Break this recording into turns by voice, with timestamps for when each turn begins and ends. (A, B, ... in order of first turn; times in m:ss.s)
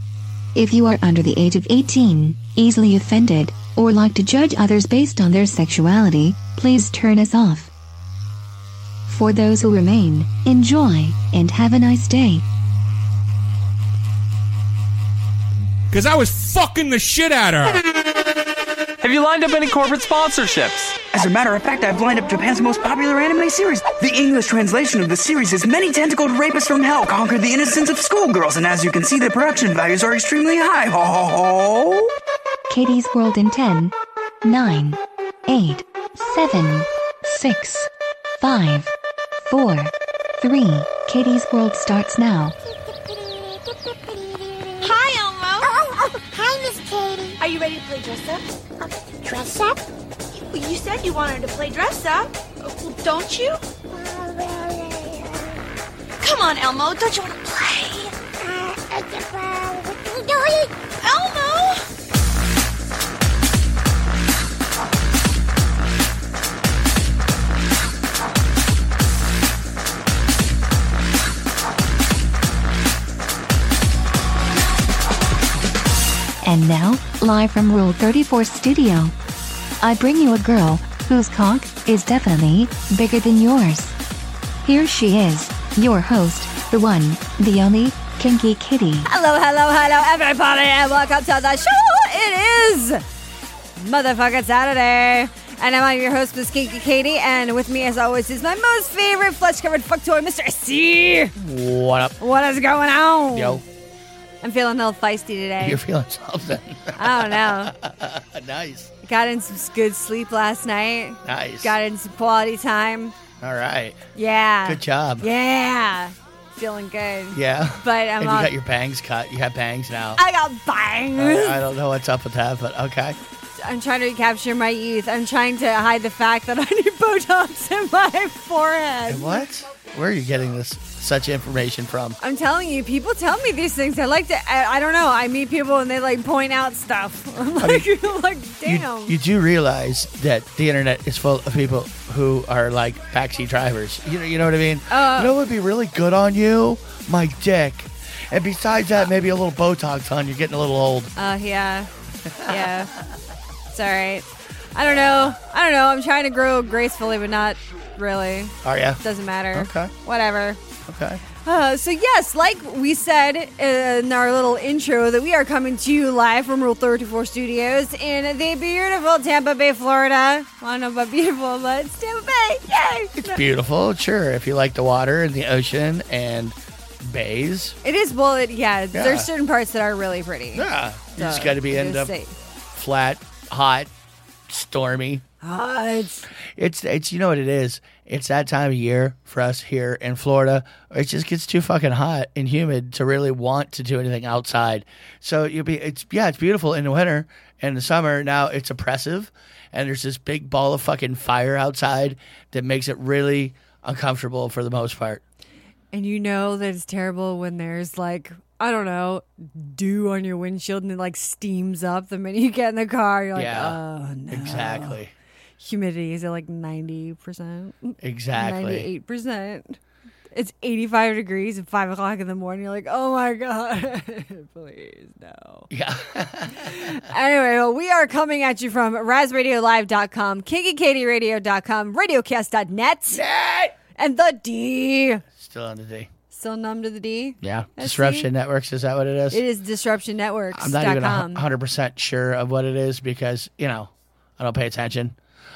0:00.5-0:07.7 A
0:09.1-0:12.4 A
0:15.9-0:17.8 B
0:19.0-0:21.0 C
0:21.1-0:32.1 D
0:32.7-0:38.9 A
0:39.4-0:42.6 A
0:42.7-0:45.0 E
0:44.9-0:45.6 F
0:45.6-0:47.4 E
0:47.4-0:48.1 F
0:48.8-0:49.8 E
0:50.5-0:52.3 F
0:53.0-0:53.6 F
0:53.9-0:55.6 E
0:56.2-0:57.3 F
0:58.3-1:00.7 E
1:01.0-1:01.6 F
1:16.4-1:19.1 A
1:19.8-1:24.0 A
1:24.6-1:29.1 A
1:29.0-1:33.0 G
1:33.8-1:41.4 G
1:41.4-1:42.2 H
1:42.2-1:43.6 G
1:43.3-1:43.6 H
1:44.4-1:45.8 G
1:45.6-1:48.9 H
1:46.9-1:47.7 G
1:49.0-1:53.1 G
1:51.2-1:51.7 H
1:53.4-1:54.0 H
1:54.1-1:58.5 G
1:54.6-1:55.3 H
1:57.3-2:00.2 H
2:00.2-2:01.6 G
2:01.2-2:03.2 H
2:03.6-2:09.4 G
2:09.1-2:12.2 H
2:12.2-2:19.1 G
2:17.6-2:17.9 H
2:18.6-2:31.1 H
2:24.9-2:25.3 G
2:31.2-2:32.9 G
2:32.2-2:32.8 H
2:33.7-2:40.6 G
2:34.9-2:35.3 H
2:38.6-2:39.0 H
2:39.5-2:39.9 H
2:40.9-2:41.2 H
2:41.4-2:53.4 G
2:53.2-2:57.8 H
2:57.8-3:02.3 G
2:58.9-2:59.3 H
3:00.5-3:02.1 H
3:02.7-3:03.9 H
3:04.5-3:05.2 H
3:05.4-3:06.3 G
3:06.6-3:25.2 H
3:25.9-3:35.0 G
3:33.3-3:33.8 H
3:34.3-3:35.1 H
3:35.6-3:39.8 G
3:38.0-3:38.9 H
3:40.3-3:45.7 G
3:45.7-3:47.0 H
3:46.5-3:53.2 G
3:53.1-3:53.8 H
3:54.0-3:55.2 G
3:55.3-3:56.1 H
3:56.3-3:58.3 G
3:57.4-3:59.4 H
3:59.3-4:01.4 G
4:00.5-4:05.2 H